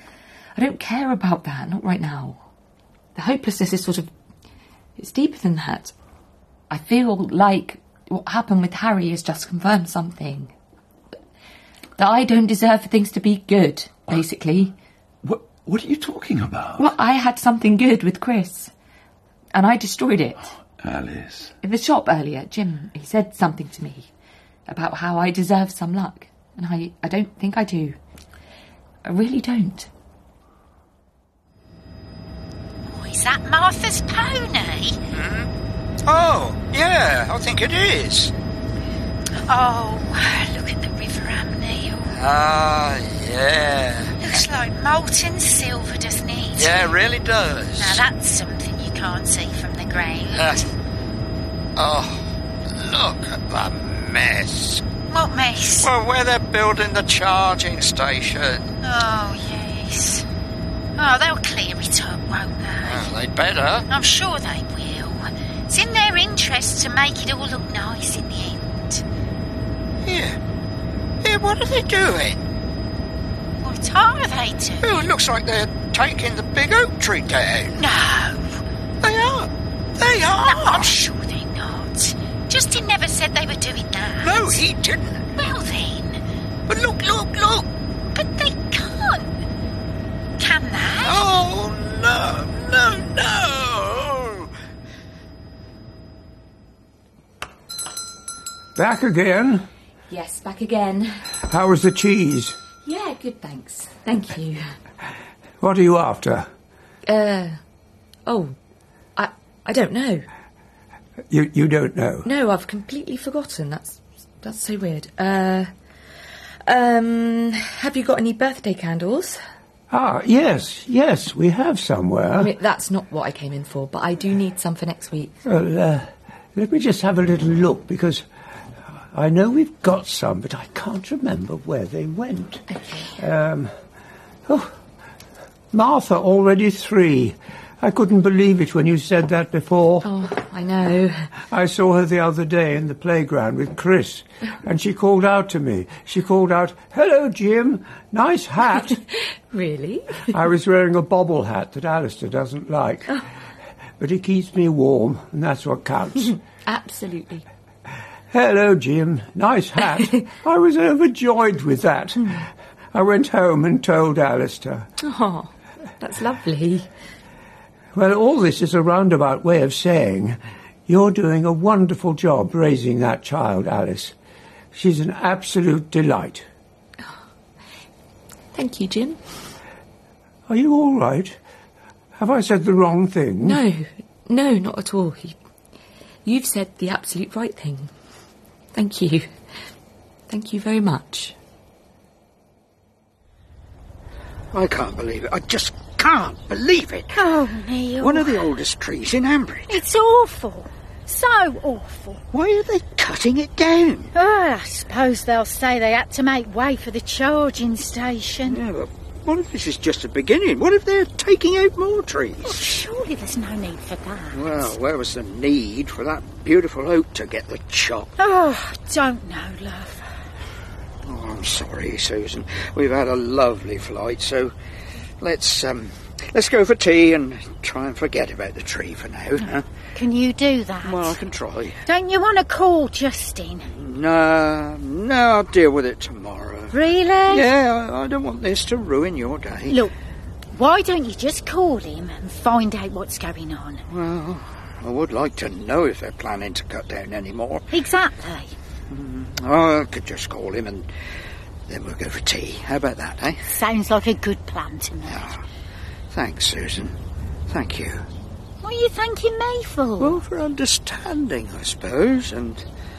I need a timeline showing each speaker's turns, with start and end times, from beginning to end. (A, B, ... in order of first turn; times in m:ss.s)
0:00.6-0:02.4 A
0:03.1-0:04.1 A
0:05.0-0:05.9 A
0:06.7-0:10.5 A
0:12.0-0:14.7 A
0:15.2-0:16.9 B
0:16.8-0:18.7 A
0:19.5-0:20.5 A
0:20.8-0:21.5 B
0:21.6-0:24.1 A
0:24.7-0:28.0 A
0:29.0-0:29.9 A
0:32.9-0:35.0 C
0:35.1-0:35.5 D
0:36.0-0:38.3 D
0:39.4-0:42.1 C
0:42.1-0:44.2 D
0:44.2-0:46.9 C
0:46.5-0:48.0 D
0:47.8-0:50.7 C
0:50.3-0:50.7 D
0:51.8-0:54.8 D
0:55.1-0:55.9 C
0:55.8-0:58.7 D
0:58.8-1:00.3 C
1:01.0-1:03.1 C
1:02.8-1:03.9 D
1:03.9-1:09.0 C
1:10.0-1:10.4 D
1:11.2-1:12.4 D
1:13.6-1:15.1 C
1:14.8-1:17.8 D
1:17.8-1:18.6 C
1:19.0-1:20.9 D
1:20.3-1:24.6 C
1:24.2-1:25.3 D
1:25.4-1:26.2 C
1:26.7-1:27.7 D
1:28.1-1:29.4 C
1:30.4-1:31.2 C
1:31.0-1:34.5 D
1:38.8-1:39.6 E
1:40.1-1:41.2 A
1:41.4-1:42.6 E
1:42.8-1:44.7 A
1:45.6-1:46.5 E
1:47.0-1:47.6 A
1:48.2-1:48.5 A
1:49.2-1:50.2 A
1:51.3-1:52.3 E
1:52.2-1:55.7 A
1:56.6-1:59.4 A
1:59.9-2:02.5 E
2:02.4-2:05.3 A
2:05.4-2:08.2 E
2:09.0-2:13.7 E
2:12.7-2:13.1 A
2:14.5-2:14.7 E
2:15.7-2:20.1 E
2:20.0-2:21.3 A
2:21.5-2:29.0 E
2:28.9-2:30.3 A
2:30.3-2:33.2 E
2:34.0-2:36.4 E
2:36.6-2:37.5 A
2:38.3-2:44.9 E
2:45.0-2:46.9 A
2:47.9-2:54.1 E
2:54.7-2:56.4 E
2:58.5-2:59.2 A
3:00.5-3:01.4 E
3:02.2-3:03.6 E
3:03.4-3:05.4 A
3:06.2-3:07.9 A
3:08.7-3:09.3 A
3:10.3-3:11.4 A
3:14.5-3:17.2 D
3:17.1-3:18.5 C
3:18.0-3:19.8 D
3:19.7-3:22.2 C
3:22.3-3:24.1 D
3:24.1-3:28.6 C
3:28.4-3:32.6 D
3:32.4-3:34.7 C
3:34.3-3:38.1 D
3:38.2-3:40.1 C
3:41.0-3:44.5 D
3:45.2-3:49.6 D
3:49.9-3:51.2 C
3:50.8-3:51.8 D
3:51.8-3:53.7 C
3:53.7-3:59.8 D
3:56.7-3:57.5 C
3:59.7-3:59.9 C
4:00.5-4:03.8 C
4:03.9-4:07.6 D
4:07.7-4:08.5 C
4:08.9-4:10.9 D
4:11.7-4:13.4 D
4:13.5-4:15.3 C
4:15.0-4:15.4 D
4:16.1-4:16.9 D
4:17.5-4:18.0 D
4:18.6-4:20.2 C
4:20.0-4:22.6 D